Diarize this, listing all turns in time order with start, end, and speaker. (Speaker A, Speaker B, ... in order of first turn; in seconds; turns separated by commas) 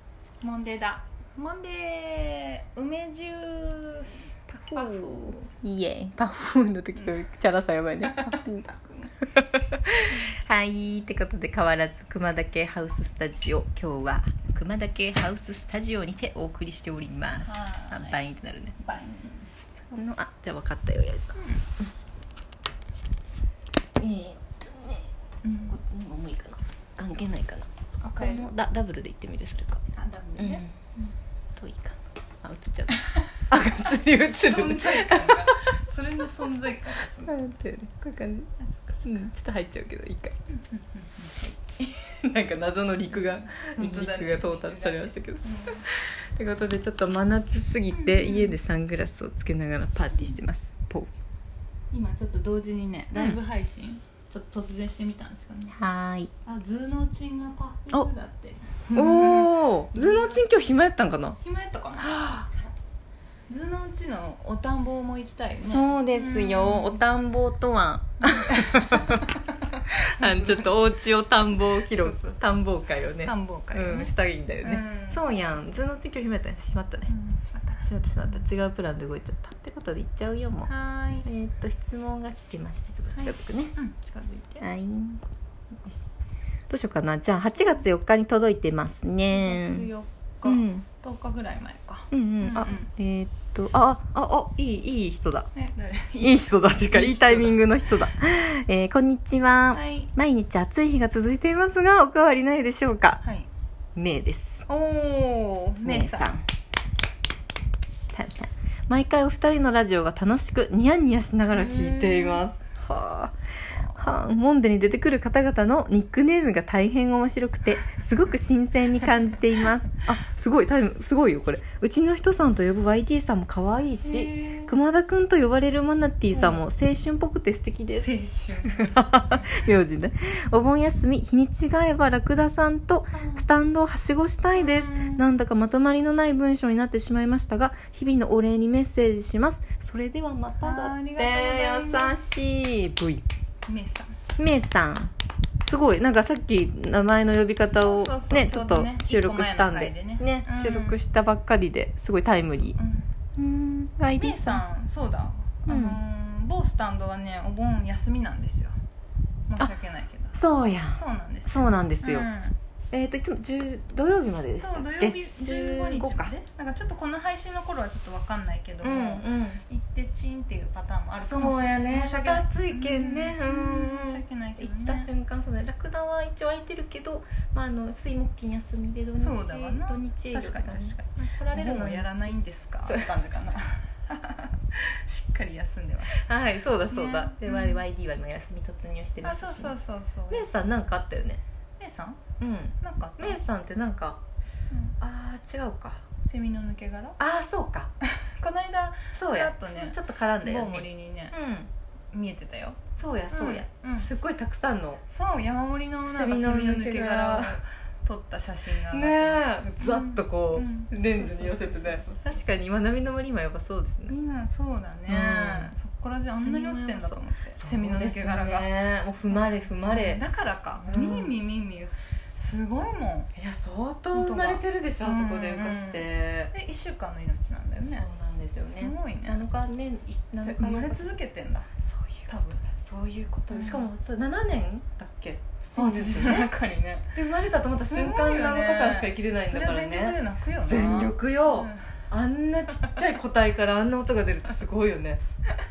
Speaker A: 0.4-5.5, Speaker B: 4.5-18.8, Speaker A: 7.0-7.2, Speaker A: 8.0-9.1, Speaker A: 17.4-18.2, Speaker A: 18.8-19.5, Speaker B: 19.9-21.4, Speaker A: 21.4-21.6, Speaker B: 24.0-25.1, Speaker A: 25.4-25.8, Speaker B: 25.7-29.9, Speaker A: 28.0-28.5, Speaker A: 29.9-31.1, Speaker B: 30.4-30.7, Speaker B: 31.6-35.7, Speaker A: 34.3-37.4, Speaker B: 37.3-38.5, Speaker A: 38.6-39.3, Speaker B: 39.0-40.4, Speaker A: 40.5-41.5, Speaker B: 41.8-51.1, Speaker A: 43.1-45.9, Speaker A: 47.9-48.6, Speaker A: 51.9-55.8, Speaker B: 55.7-56.3, Speaker A: 56.5-60.4, Speaker B: 59.0-61.4, Speaker A: 61.4-62.4, Speaker B: 62.1-62.5, Speaker A: 63.5-67.0, Speaker B: 65.6-77.1, Speaker A: 68.2-70.8, Speaker A: 71.8-72.5, Speaker A: 73.2-75.2, Speaker A: 77.1-77.9, Speaker B: 77.8-80.7, Speaker A: 80.7-81.3, Speaker B: 81.2-83.8, Speaker A: 83.2-84.7, Speaker B: 84.6-86.1, Speaker B: 86.7-89.9, Speaker A: 87.6-87.8, Speaker A: 89.3-92.9, Speaker B: 90.4-90.9, Speaker B: 92.1-95.5, Speaker A: 95.5-97.7, Speaker B: 96.2-103.2, Speaker A: 99.7-100.1, Speaker A: 103.2-103.5, Speaker B: 104.0-104.7, Speaker A: 104.7-106.3, Speaker B: 105.8-106.4, Speaker B: 108.1-128.1, Speaker A: 111.5-112.5, Speaker A: 113.7-114.0, Speaker A: 124.0-124.7, Speaker A: 126.3-126.6, Speaker A: 128.0-129.7, Speaker B: 128.7-143.2, Speaker A: 133.1-133.5, Speaker A: 134.5-135.2, Speaker A: 140.6-142.2, Speaker A: 143.7-144.2, Speaker B: 144.4-145.1, Speaker B: 145.7-152.8, Speaker A: 147.7-151.0, Speaker A: 152.7-153.1, Speaker B: 153.4-154.6, Speaker A: 154.2-158.8, Speaker B: 155.7-156.0, Speaker A: 159.5-160.4, Speaker B: 160.3-162.3, Speaker A: 160.9-162.6, Speaker B: 162.9-166.3, Speaker A: 164.6-175.1, Speaker B: 168.8-169.6, Speaker B: 171.2-183.1, Speaker A: 179.2-186.2, Speaker B: 186.1-189.8, Speaker A: 186.9-187.8, Speaker A: 189.2-190.5, Speaker B: 190.3-191.4, Speaker A: 191.8-192.2, Speaker B: 192.4-194.2, Speaker A: 192.8-193.4, Speaker B: 195.0-196.0, Speaker A: 196.2-197.2, Speaker B: 197.2-197.9, Speaker A: 198.0-201.4, Speaker B: 199.1-201.7, Speaker A: 202.1-202.8, Speaker B: 203.0-205.0, Speaker A: 203.3-204.1, Speaker A: 205.1-212.4, Speaker B: 206.1-207.6, Speaker B: 208.9-214.1, Speaker A: 214.1-218.7, Speaker B: 215.1-215.7, Speaker B: 216.3-220.2, Speaker A: 219.3-223.3, Speaker B: 220.8-221.3, Speaker B: 223.3-226.5, Speaker A: 224.1-228.1, Speaker B: 227.8-231.2, Speaker A: 228.7-229.6, Speaker A: 230.4-231.7, Speaker B: 231.8-236.5, Speaker A: 232.3-232.7, Speaker A: 233.5-233.8, Speaker A: 235.7-237.1, Speaker B: 237.1-245.2, Speaker A: 237.8-241.9